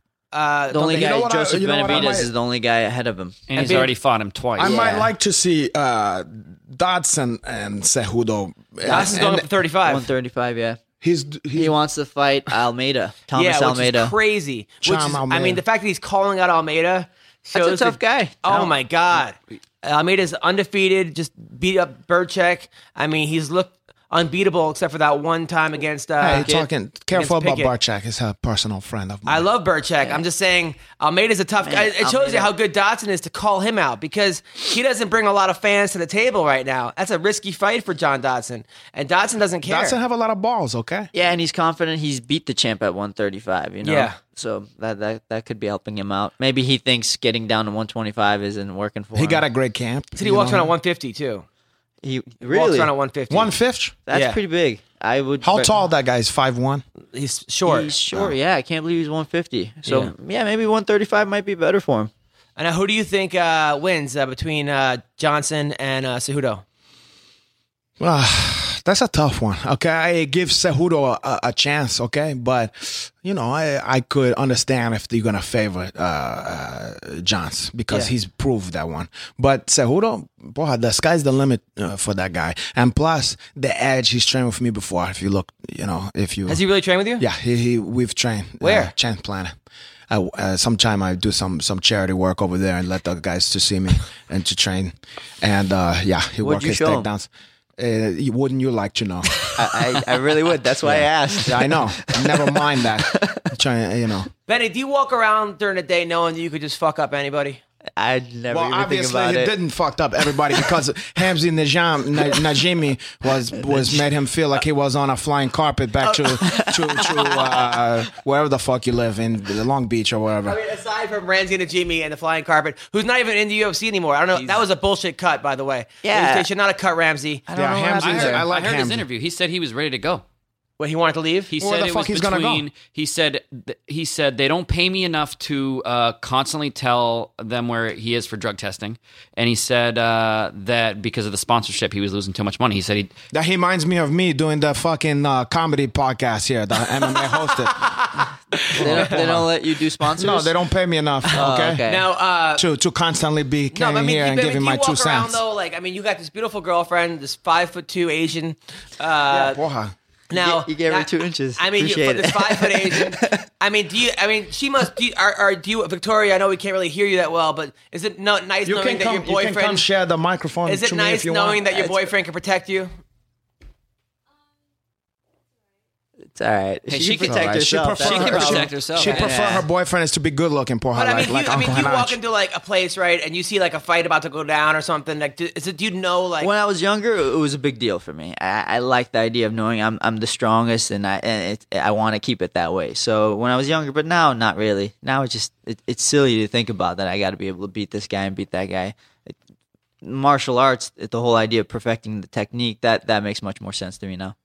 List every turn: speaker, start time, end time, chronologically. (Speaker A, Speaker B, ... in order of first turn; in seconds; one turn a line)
Speaker A: 0.3-1.2
Speaker B: 0.7-3.4
Speaker C: 0.9-2.3
Speaker D: 3.5-4.9
Speaker A: 3.5-3.9
Speaker B: 4.6-5.1
Speaker C: 4.6-9.5
Speaker B: 8.8-9.3
Speaker A: 8.9-10.1
Speaker B: 9.8-10.8
Speaker C: 11.0-11.7
Speaker B: 11.5-14.1
Speaker A: 13.3-26.5
Speaker C: 14.8-15.6
Speaker B: 17.5-18.8
Speaker C: 26.2-29.4
Speaker B: 26.2-26.7
Speaker A: 27.1-27.7
Speaker A: 29.2-40.0
Speaker B: 31.6-32.5
Speaker C: 39.7-41.1
Speaker B: 41.1-49.4
Speaker A: 43.8-44.2
Speaker C: 49.1-50.7
Speaker A: 50.2-51.4
Speaker B: 52.0-52.9
Speaker A: 52.5-53.5
Speaker C: 53.3-54.0
Speaker B: 54.1-55.7
Speaker A: 54.1-54.4
Speaker C: 55.4-56.8
Speaker A: 57.1-57.9
Speaker B: 57.6-62.1
Speaker A: 59.9-60.1
Speaker A: 62.6-66.6
Speaker C: 68.0-86.6
Speaker A: 86.5-87.2
Speaker C: 87.2-89.5
Speaker A: 88.6-88.9
Speaker C: 90.1-100.0
Speaker B: 96.4-97.1
Speaker B: 99.5-103.4
Speaker C: 100.8-104.3
Speaker A: 104.5-107.6
Speaker B: 108.0-109.5
Speaker C: 108.5-120.6
Speaker B: 110.3-110.8
Speaker B: 113.7-114.0
Speaker A: 116.0-117.5
Speaker B: 116.4-117.6
Speaker A: 120.4-127.5
Speaker B: 126.0-126.5
Speaker B: 127.5-128.5
Speaker C: 127.5-129.1
Speaker D: 128.0-130.2
Speaker A: 130.8-131.5
Speaker D: 131.5-143.1
Speaker C: 131.6-132.6
Speaker C: 143.3-148.0
Speaker A: 147.8-148.2
Speaker C: 148.7-149.5
Speaker B: 148.7-150.5
Speaker A: 148.9-149.2
Speaker C: 150.1-151.8
Speaker B: 151.3-152.1
Speaker A: 151.3-152.6
Speaker C: 152.6-155.4
Speaker A: 153.7-159.6
Speaker C: 159.3-159.9
Speaker B: 160.3-163.4
Speaker A: 160.3-169.9
Speaker C: 168.6-171.8
Speaker A: 170.7-172.9
Speaker B: 176.3-179.6
Speaker D: 176.9-179.6
Speaker C: 177.2-182.2
Speaker A: 180.9-186.5
Speaker B: 186.4-199.3
Speaker B: 200.0-204.3